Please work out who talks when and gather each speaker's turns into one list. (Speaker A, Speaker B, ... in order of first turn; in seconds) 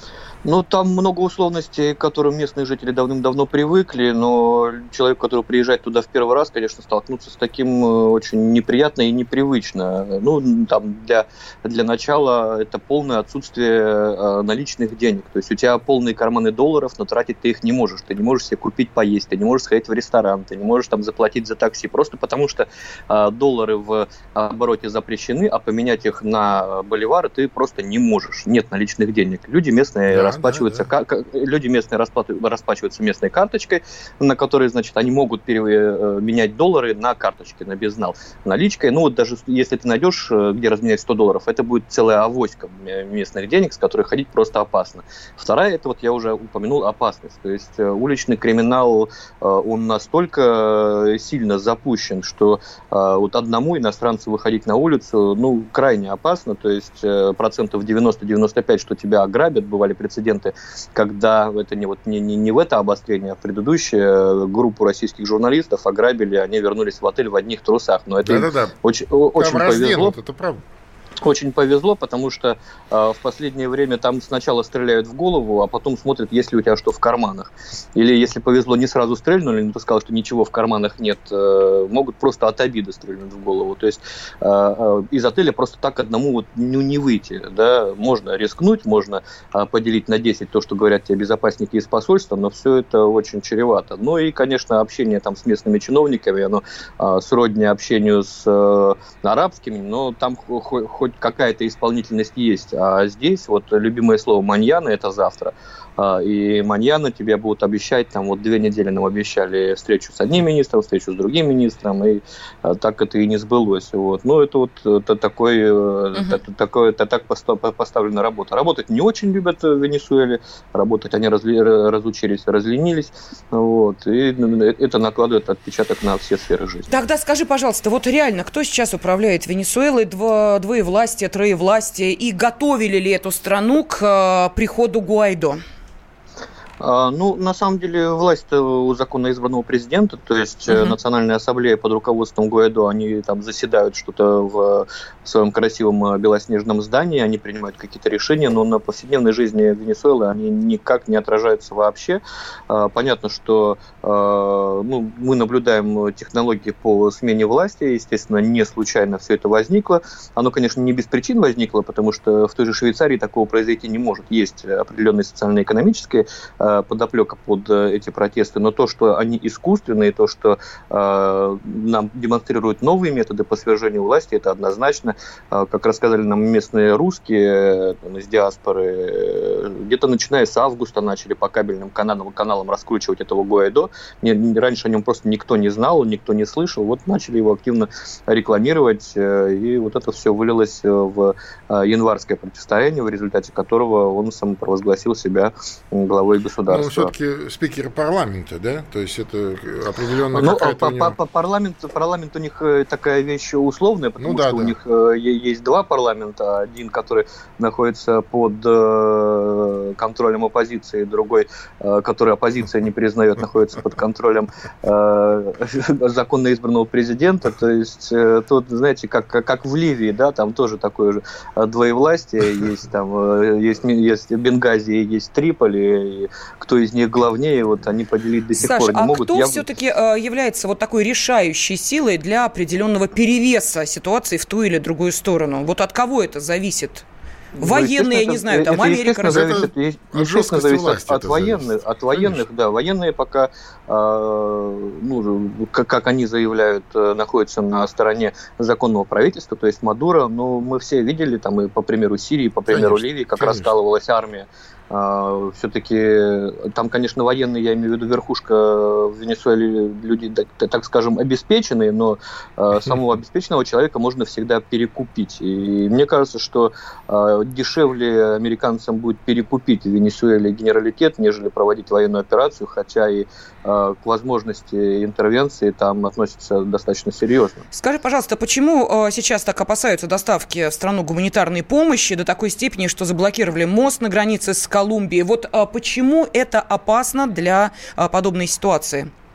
Speaker A: 0.4-70.1, 71.2-127.0, 136.8-197.1, 200.3-229.6, 237.6-277.6
Speaker B: 30.1-30.9, 68.2-68.7, 69.3-70.6, 196.7-201.2, 204.2-204.7, 239.2-242.4, 252.7-253.7
Speaker C: 116.1-116.4, 126.9-135.6, 140.7-140.9, 228.6-237.0, 237.6-239.6, 277.7-289.1